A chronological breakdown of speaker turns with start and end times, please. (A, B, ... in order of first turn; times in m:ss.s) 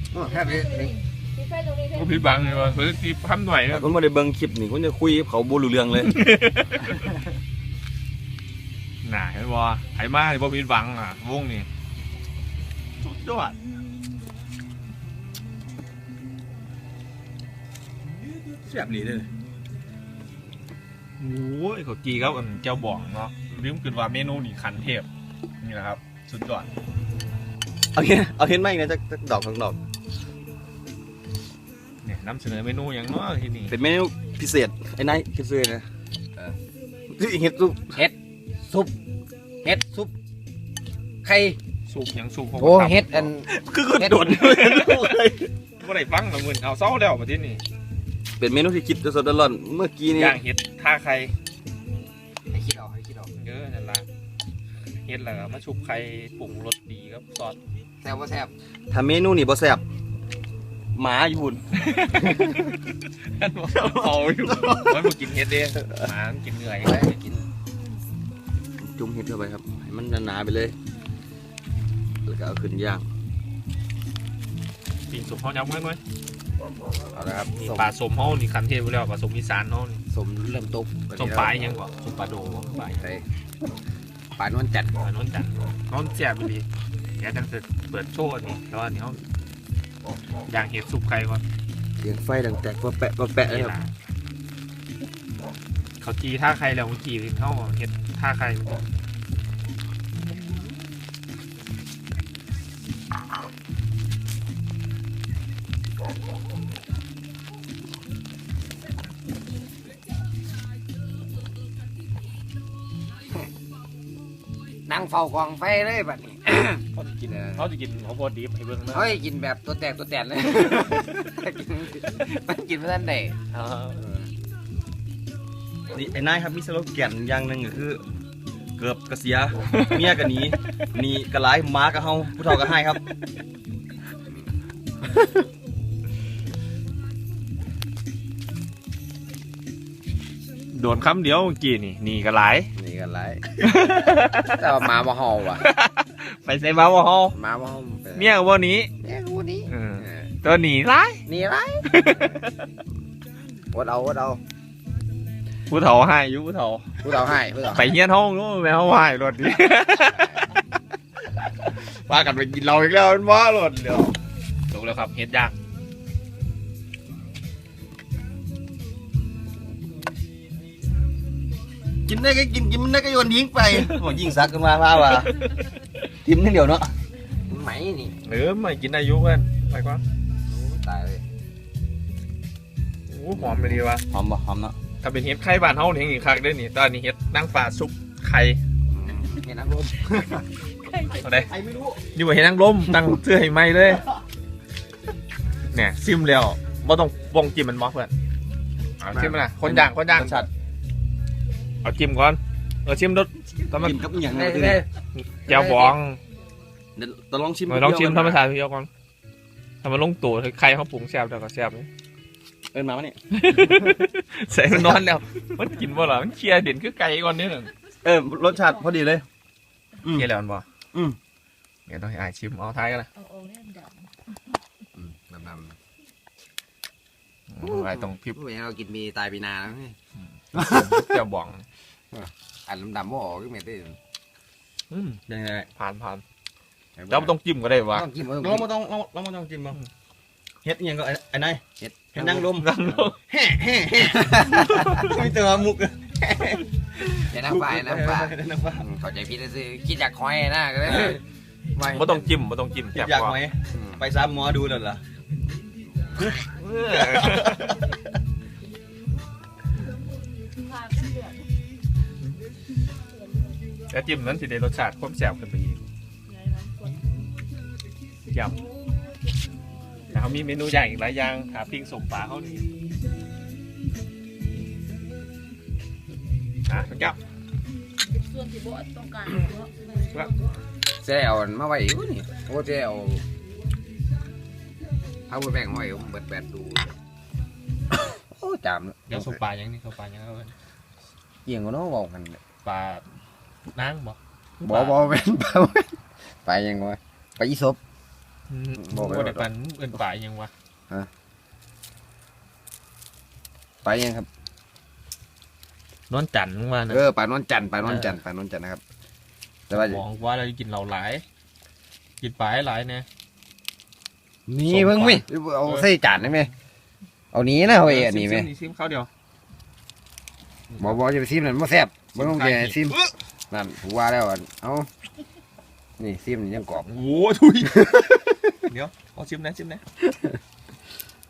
0:00.1-0:01.0 A
0:00.4-0:02.4 B
0:01.9-0:03.9 C
0:03.7-0:06.2 D
0:06.0-0:07.0 C
0:09.0-0:11.7 C
0:13.1-0:13.6 C
0:18.6-0:19.3 D
0:21.2-0:25.1 C
0:25.6-0:26.7 C
0:27.9-0:29.8 D
0:32.0-0:33.7 C
0:33.7-0:35.9 D
0:37.1-0:38.0 D
0:38.0-0:39.0 A
0:39.6-0:40.1 A
0:41.2-0:41.6 A
0:41.9-0:43.3 C
0:42.6-0:44.3 A
0:43.5-0:45.5 D
0:44.1-0:45.2 C
0:45.8-0:47.6 C
0:48.4-0:50.4 D
0:50.1-0:51.3 C
0:52.5-0:53.3 A
0:53.4-0:54.1 C
0:55.0-0:57.6 C
0:58.0-0:58.5 A
0:58.9-0:59.8 D
1:01.0-1:02.7 D
1:01.7-1:07.1 C
1:03.8-1:05.1 D
1:06.8-1:07.5 A
1:08.8-1:10.8 D
1:12.2-1:13.0 D
1:15.1-1:16.0 C
1:17.1-1:17.9 A
1:17.6-1:20.0 C
1:20.1-1:21.6 A
1:21.2-1:23.0 C
1:23.0-1:23.2 A
1:24.4-1:24.9 A
1:25.0-1:26.7 C
1:27.2-1:29.2 C
1:30.5-1:31.4 C
1:32.0-1:33.8 D
1:33.4-1:33.9 C
1:36.0-1:38.8 C
1:54.9-1:57.7 A
1:56.9-1:59.2 C
1:58.9-2:03.4 A
2:03.5-2:04.0 C
2:04.0-2:04.3 A
2:05.9-2:08.0 D
2:08.8-2:13.0 D
2:20.7-2:22.7 C
2:22.8-2:23.4 A
2:23.6-2:24.8 C
2:24.4-2:25.6 A
2:25.5-2:27.4 C
2:27.3-2:28.3 A
2:28.2-2:28.9 C
2:29.0-2:30.3 A
2:29.7-2:31.2 C
2:31.3-2:32.1 A
2:31.9-2:32.7 C
2:33.7-2:34.4 A
2:35.7-2:36.9 C
2:37.0-2:38.0 A
2:37.7-2:40.4 C
2:40.0-2:40.4 A
2:41.7-2:44.2 C
2:44.7-2:45.6 C
2:52.1-2:55.5 D
2:56.2-2:57.0 D
2:57.5-2:58.2 A
2:58.2-3:00.0 C
3:00.5-3:01.2 A
3:03.1-3:04.0 C
3:04.1-3:04.8 D
3:05.0-3:08.6 C
3:08.9-3:10.5 A
3:10.9-3:11.2 B
3:11.2-3:11.5 C
3:11.5-3:12.0 D
3:12.1-3:14.0 C
3:15.7-3:18.1 C
3:19.0-3:20.4 C
3:19.1-3:19.4 A
3:19.6-3:20.5 D
3:21.8-3:24.0 C
3:23.8-3:24.8 D
3:24.3-3:24.9 A
3:25.2-3:26.2 C
3:25.5-3:26.0 A
3:27.0-3:28.4 D
3:27.7-3:28.9 C
3:29.8-3:31.9 C
3:32.7-3:33.2 D
3:33.3-3:37.7 C
3:34.7-3:35.0 D
3:38.0-3:39.2 D
3:40.1-3:40.6 C
3:41.9-3:43.1 C
3:43.2-3:44.1 B
3:45.0-3:45.8 A
3:47.5-3:48.4 C
3:47.6-3:50.0 A
3:50.2-3:51.6 C
3:50.5-3:51.1 A
3:52.1-3:54.0 A
3:54.9-3:55.2 C
3:55.3-3:55.7 D
3:55.8-3:56.2 C
3:57.0-3:57.3 A
3:57.1-3:58.1 C
3:57.9-3:58.7 A
3:58.4-3:59.8 D
4:00.6-4:01.6 D
4:01.8-4:02.5 A
4:02.1-4:08.9 D
4:02.2-4:03.2 C
4:04.0-4:05.1 A
4:04.7-4:05.1 C
4:07.3-4:12.3 A
4:11.8-4:13.4 C
4:12.9-4:15.0 D
4:13.7-4:14.0 A
4:16.3-4:17.8 C
4:16.9-4:17.8 D
4:20.7-4:21.4 B
4:23.9-4:25.8 C
4:26.3-4:27.1 B
4:28.3-4:28.6 C
4:28.8-4:29.3 B
4:30.1-4:32.7 C
4:36.7-4:37.2 C
4:38.0-4:40.5 B
4:41.0-4:43.2 A
4:45.3-4:46.9 A
4:47.9-4:49.4 A
4:49.1-4:50.5 C
4:51.5-4:52.4 A
4:52.6-4:53.0 C
4:53.7-4:55.0 C
4:54.6-4:57.8 A
4:58.5-5:00.5 C
4:58.8-4:59.5 A
5:03.8-5:04.3 A
5:06.1-5:07.0 C
5:06.9-5:08.8 A
5:07.8-5:08.2 C
5:09.7-5:10.0 A
5:09.7-5:11.2 C
5:12.2-5:13.1 C
5:14.5-5:16.5 A
5:14.7-5:15.9 C
5:17.3-5:18.5 A
5:17.7-5:19.1 C
5:20.7-5:21.0 C
5:20.8-5:23.0 A
5:22.1-5:23.1 C
5:23.5-5:24.9 A
5:26.0-5:26.9 A
5:26.8-5:27.9 C
5:27.7-5:28.3 A
5:28.7-5:29.8 C
5:30.0-5:30.4 A